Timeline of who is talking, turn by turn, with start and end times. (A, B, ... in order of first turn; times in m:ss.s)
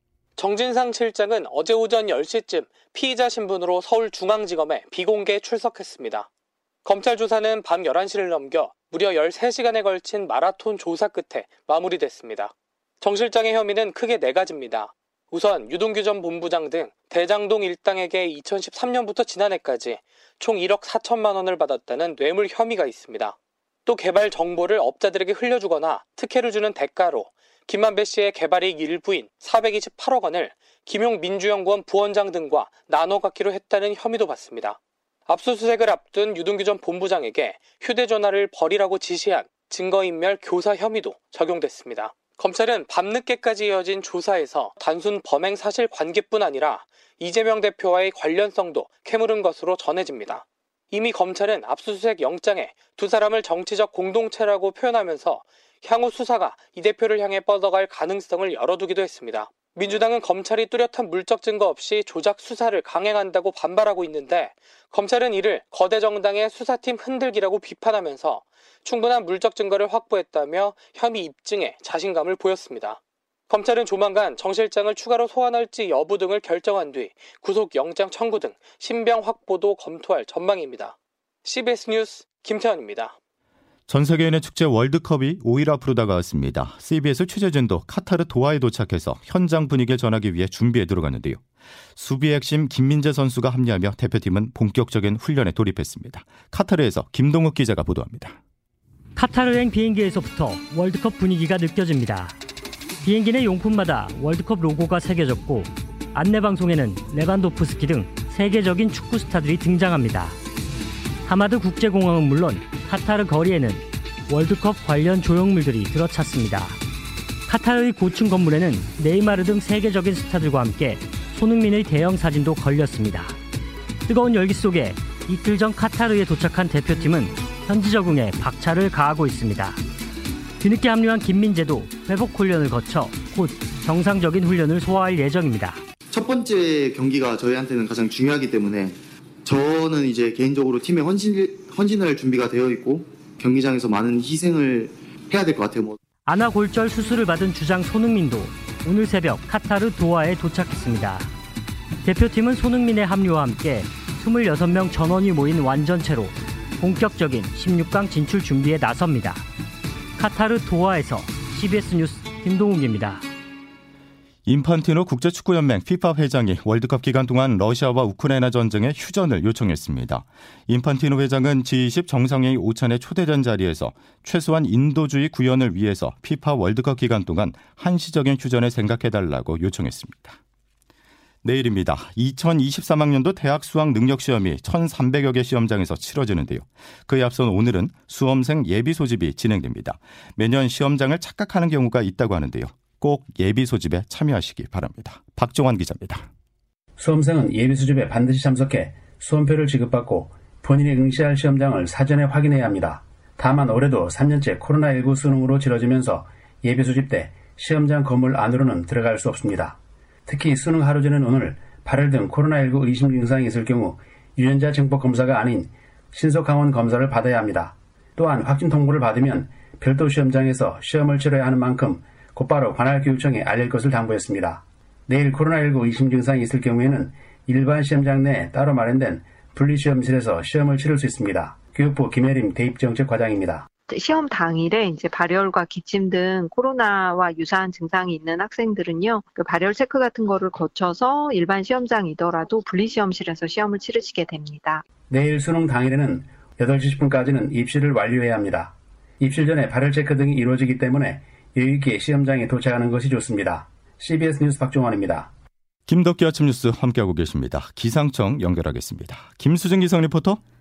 0:00.4-0:06.3 A
0:06.8-0:34.8 A
0:35.3-1:13.0 A
1:13.5-1:23.1 A
1:23.9-1:31.4 B
1:32.0-1:38.4 B
1:39.2-1:42.4 C
1:43.0-1:50.4 C
1:51.3-1:56.8 C
1:57.5-2:03.4 C
2:04.1-2:09.8 C
2:10.6-2:15.8 C
2:16.1-2:26.0 D
2:26.3-2:31.3 C
2:32.0-2:39.4 C
2:40.2-2:43.2 C
2:44.5-3:00.4 B
3:01.4-3:16.2 B
3:17.0-3:29.8 E
3:30.3-3:53.7 E
3:53.9-4:04.8 F
4:05.1-4:15.3 E
4:15.9-4:20.4 B